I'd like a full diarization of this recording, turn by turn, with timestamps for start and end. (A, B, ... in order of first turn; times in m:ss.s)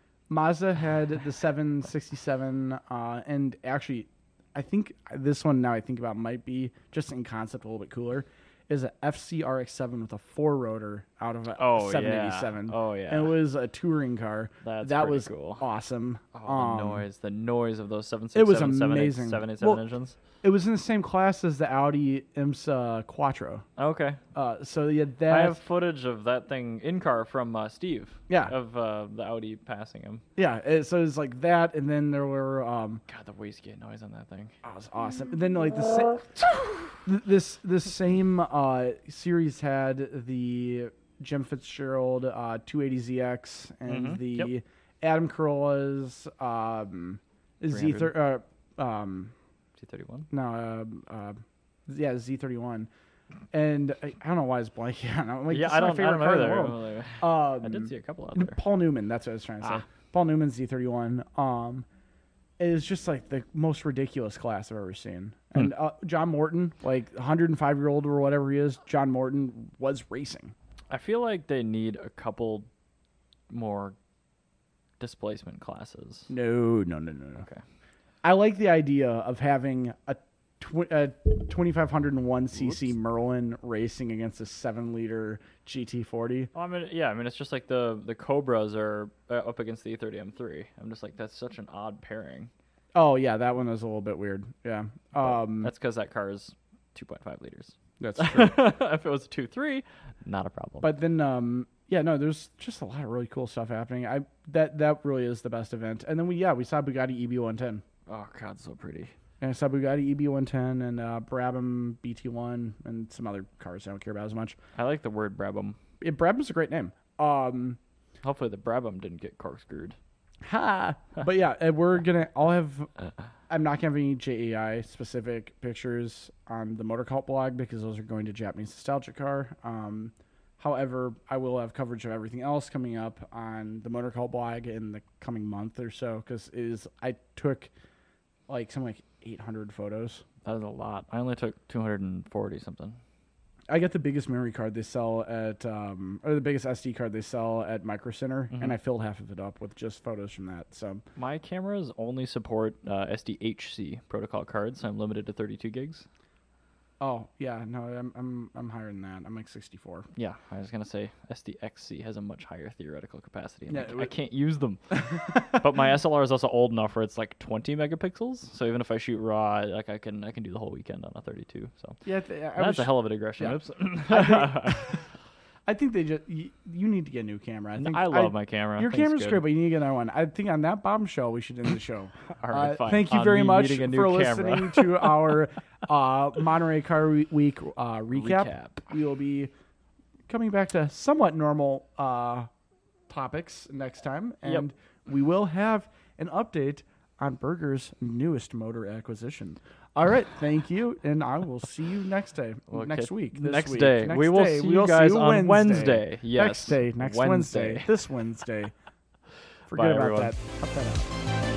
0:00.3-0:17.0 A
0:11.6-0:13.4 B
0:14.6-0:15.7 B
0:16.3-0:20.2 B
0:18.3-0:19.8 A
0:20.4-0:23.6 A
0:23.8-0:24.2 B
0:24.3-0:25.6 A
0:25.3-0:30.2 B
0:28.3-0:28.6 A
0:30.4-0:33.0 A
0:33.1-0:34.5 B
0:34.6-0:36.4 A
0:37.0-0:49.3 A
0:43.9-0:44.5 B
0:47.7-0:48.2 B
0:49.8-0:50.3 B
0:50.3-0:52.9 A
0:53.5-1:01.9 A
0:55.5-0:58.6 B
1:02.6-1:10.5 A
1:10.9-1:12.7 B
1:13.5-1:14.0 B
1:15.0-1:16.3 B
1:16.3-1:17.4 A
1:18.2-1:26.5 A
1:22.6-1:22.8 B
1:26.6-1:32.5 B
1:32.9-1:35.7 A
1:35.2-1:40.9 B
1:38.0-1:38.6 A
1:40.8-1:47.8 A
1:48.1-1:49.1 B
1:49.4-1:54.6 A
1:54.8-1:55.8 B
1:56.0-1:57.8 A
1:58.2-2:00.0 B
2:00.4-2:02.9 A
2:03.5-2:17.7 A
2:18.5-2:20.2 A
2:20.4-2:23.0 B
2:23.7-2:31.0 A
2:31.2-2:36.1 B
2:37.0-2:40.1 A
2:40.2-2:52.0 B
2:43.7-2:44.1 A
2:45.0-2:45.6 A
2:52.0-2:55.0 A
2:52.6-2:55.0 B
2:55.7-3:09.5 A
2:57.8-2:59.5 B
3:02.3-3:05.4 B
3:08.1-3:08.9 B
3:10.3-3:12.5 A
3:13.1-3:28.7 A
3:22.7-3:27.9 B
3:29.7-3:30.3 B
3:29.7-3:31.1 A